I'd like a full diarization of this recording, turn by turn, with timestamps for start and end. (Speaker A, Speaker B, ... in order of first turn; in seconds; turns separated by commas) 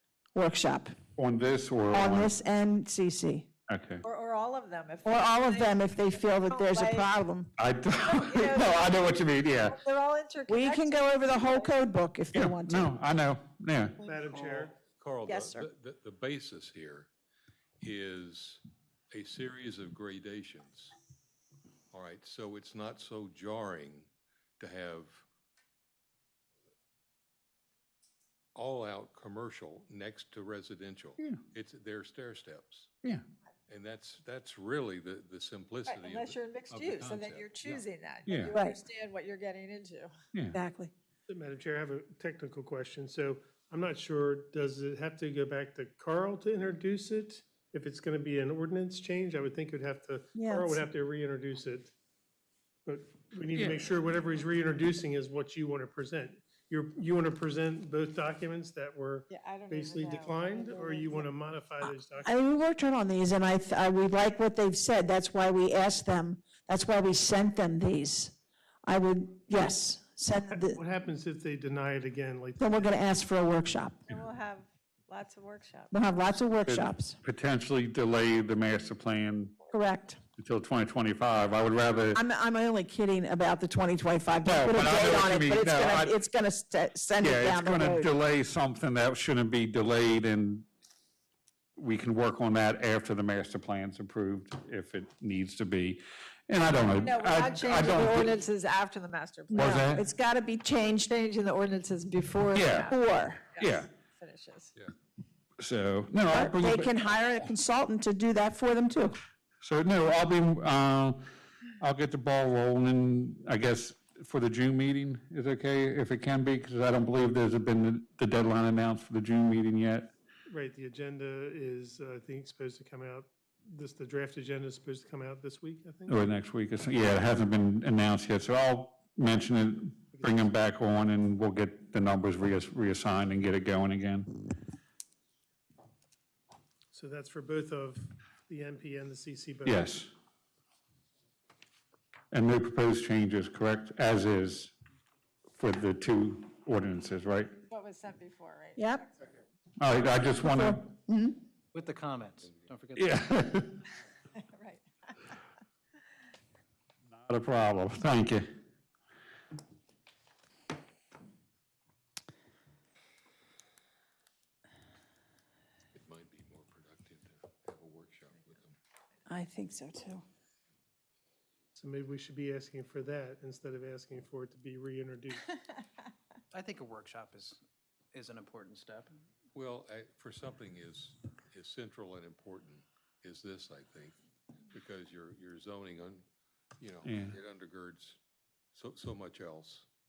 Speaker A: 0.3-0.9, Speaker B: 1.2-2.3, Speaker A: 1.9-3.5, Speaker B: 3.7-4.0, Speaker C: 4.0-7.1, Speaker A: 5.0-7.5, Speaker B: 7.6-9.8, Speaker C: 8.0-11.8, Speaker A: 10.5-12.9, Speaker B: 12.3-14.0, Speaker D: 14.0-14.8, Speaker E: 14.8-17.1, Speaker C: 15.3-15.6, Speaker E: 17.8-20.9, Speaker E: 21.9-25.2, Speaker E: 28.6-32.9, Speaker E: 33.7-37.8, Speaker C: 35.9-40.1, Speaker B: 38.3-38.5, Speaker A: 38.5-38.8, Speaker B: 40.3-40.6, Speaker A: 40.5-40.9, Speaker D: 41.3-51.9, Speaker A: 50.4-50.8, Speaker D: 52.9-62.3, Speaker C: 59.3-61.3, Speaker A: 62.2-70.8, Speaker D: 70.6-73.0, Speaker A: 72.6-74.0, Speaker C: 74.1-76.0, Speaker A: 75.9-77.2, Speaker B: 76.7-79.6, Speaker A: 79.7-80.2, Speaker B: 80.4-82.2, Speaker A: 82.1-88.1, Speaker B: 84.4-86.2, Speaker B: 87.2-90.7, Speaker B: 91.8-98.3, Speaker C: 96.9-99.9, Speaker A: 99.5-101.1, Speaker B: 99.5-100.0, Speaker C: 101.0-104.7, Speaker B: 102.5-102.9, Speaker A: 102.9-103.4, Speaker B: 103.6-103.9, Speaker B: 105.6-106.9, Speaker A: 106.3-109.2, Speaker B: 109.6-111.3, Speaker B: 111.8-120.1, Speaker D: 120.5-126.2, Speaker B: 126.1-134.3, Speaker D: 130.1-130.5, Speaker D: 136.9-139.9, Speaker B: 139.7-140.1, Speaker B: 142.3-144.7, Speaker B: 145.6-147.6, Speaker C: 147.6-148.9, Speaker A: 148.8-149.0, Speaker B: 149.8-151.0, Speaker A: 150.4-151.4, Speaker F: 151.7-153.2, Speaker B: 153.0-153.8, Speaker C: 154.3-154.8, Speaker B: 157.1-158.5, Speaker E: 165.9-168.8, Speaker A: 169.3-170.2, Speaker D: 171.8-175.5, Speaker F: 176.5-177.6, Speaker F: 178.1-179.2, Speaker E: 179.5-184.2, Speaker E: 184.7-186.2, Speaker E: 186.8-188.2, Speaker B: 187.0-187.4, Speaker E: 188.7-189.9